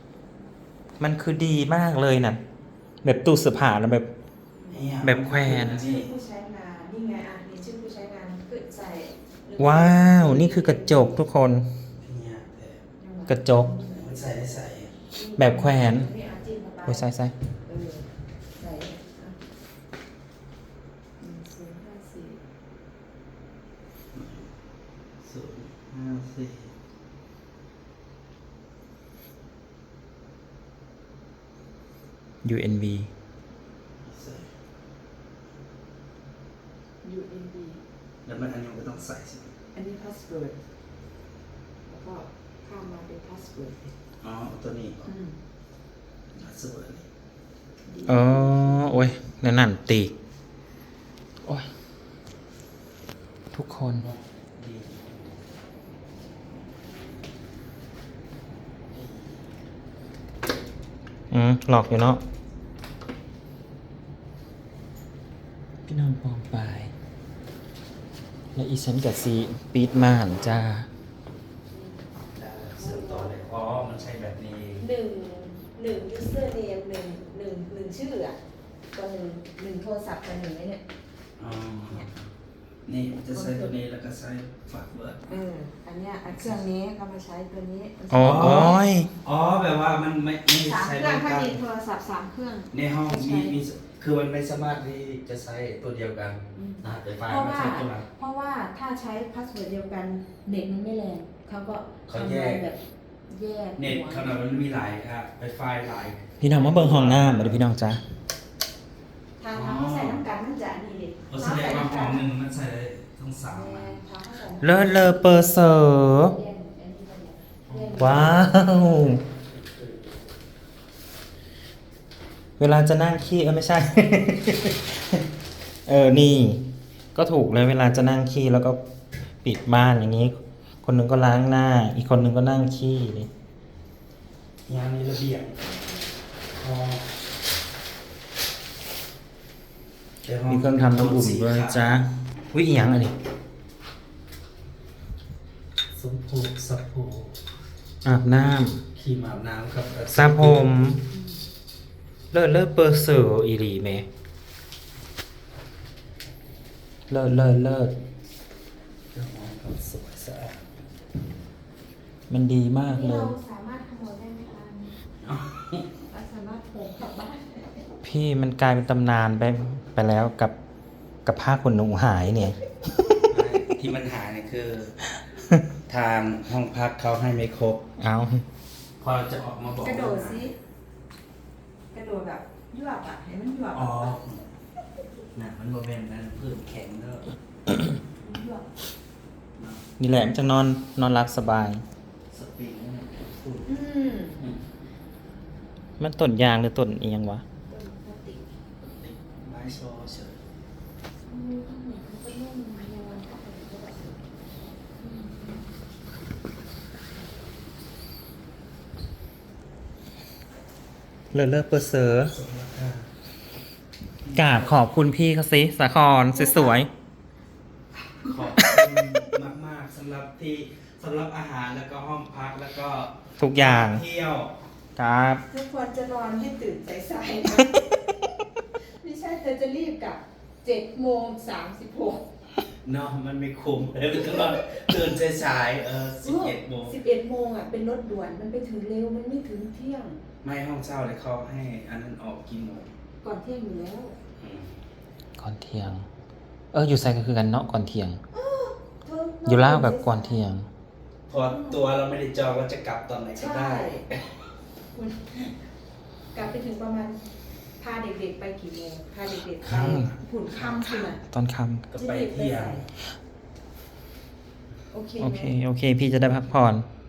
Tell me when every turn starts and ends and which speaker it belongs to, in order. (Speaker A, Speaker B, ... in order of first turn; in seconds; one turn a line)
Speaker A: 1.0-2.4
Speaker A: 3.0-4.1
Speaker B: 4.5-4.8
Speaker C: 4.7-6.1
Speaker A: 5.0-5.8
Speaker B: 5.7-11.2
Speaker A: 9.6-11.7
Speaker C: 12.0-12.8
Speaker B: 13.0-14.1
Speaker A: 13.3-13.7
Speaker C: 13.8-14.9
Speaker B: 15.1-17.0
Speaker A: 15.4-16.1
Speaker A: 16.9-17.3
Speaker B: 17.6-19.4
Speaker B: 21.2-22.4
Speaker C: 24.1-24.5
Speaker C: 25.2-26.7
Speaker A: 32.4-33.1
Speaker C: 34.0-34.5
Speaker B: 37.0-37.8
Speaker C: 38.2-39.5
Speaker B: 39.7-40.6
Speaker B: 41.9-43.9
Speaker C: 44.2-45.1
Speaker B: 45.0-45.4
Speaker C: 46.4-47.0
Speaker B: 47.8-49.0
Speaker A: 48.0-50.1
Speaker A: 53.5-54.0
Speaker C: 54.0-55.1
Speaker C: 58.9-59.4
Speaker A: 61.3-62.2
Speaker A: 65.9-66.9
Speaker A: 68.5-70.9
Speaker B: 71.7-72.0
Speaker C: 72.3-74.8
Speaker B: 72.8-73.3
Speaker B: 74.8-78.4
Speaker B: 78.9-80.8
Speaker C: 81.4-82.1
Speaker C: 82.9-85.3
Speaker B: 83.3-83.7
Speaker B: 85.3-88.8
Speaker C: 86.3-86.6
Speaker A: 88.1-89.1
Speaker C: 88.2-91.6
Speaker B: 90.6-93.5
Speaker C: 92.7-98.1
Speaker B: 96.5-104.3
Speaker C: 102.1-102.6
Speaker C: 103.8-107.6
Speaker A: 106.4-108.0
Speaker B: 109.4-112.2
Speaker C: 109.5-110.2
Speaker C: 111.3-114.0
Speaker B: 113.5-115.5
Speaker A: 114.6-116.3
Speaker B: 116.2-118.5
Speaker C: 117.7-118.3
Speaker A: 117.9-119.2
Speaker C: 119.1-120.1
Speaker A: 122.6-125.2
Speaker A: 125.8-128.8
Speaker A: 129.4-133.3
Speaker C: 134.7-135.6
Speaker B: 135.6-136.1
Speaker C: 136.6-137.1
Speaker C: 140.2-142.0
Speaker A: 140.5-143.1
Speaker C: 145.9-147.3
Speaker A: 148.0-148.8
Speaker C: 148.9-150.7
Speaker A: 150.1-151.0
Speaker A: 152.3-154.1
Speaker A: 157.1-157.9
Speaker C: 159.1-160.7
Speaker A: 162.3-163.3
Speaker B: 162.8-164.9
Speaker C: 165.2-165.8
Speaker B: 166.1-167.8
Speaker A: 168.0-170.5
Speaker A: 171.2-172.6
Speaker C: 173.3-175.1
Speaker A: 175.4-175.6
Speaker C: 175.8-177.8
Speaker A: 178.0-178.4
Speaker C: 179.0-180.5
Speaker B: 179.8-180.5
Speaker B: 181.9-184.2
Speaker C: 183.7-184.4
Speaker C: 185.3-187.3
Speaker B: 188.2-188.7
Speaker C: 189.6-189.8
Speaker A: 190.0-191.8
Speaker C: 192.3-193.7
Speaker B: 193.7-194.4
Speaker A: 196.0-197.4
Speaker B: 197.7-198.5
Speaker C: 198.9-200.4
Speaker B: 201.2-204.3
Speaker B: 204.9-205.6
Speaker A: 211.3-212.3
Speaker C: 212.3-213.1
Speaker C: 214.2-214.7
Speaker A: 214.3-216.9
Speaker B: 216.3-216.9
Speaker C: 218.2-224.5
Speaker A: 223.4-224.0
Speaker A: 224.9-225.4
Speaker B: 225.5-227.9
Speaker B: 229.0-232.2
Speaker C: 232.8-236.9
Speaker B: 236.2-240.2
Speaker C: 240.4-242.9
Speaker B: 243.2-244.2
Speaker C: 244.4-244.7
Speaker A: 245.4-246.1
Speaker A: 246.7-248.2
Speaker B: 248.3-250.4
Speaker A: 249.4-250.7
Speaker C: 251.3-254.0
Speaker B: 251.5-251.8
Speaker B: 253.3-254.1
Speaker B: 254.9-255.5
Speaker B: 256.3-257.2
Speaker B: 257.8-261.2
Speaker C: 259.7-260.1
Speaker A: 259.7-260.1
Speaker A: 260.6-261.9
Speaker C: 261.9-262.8
Speaker B: 261.9-262.9
Speaker B: 264.9-265.5
Speaker A: 265.2-266.9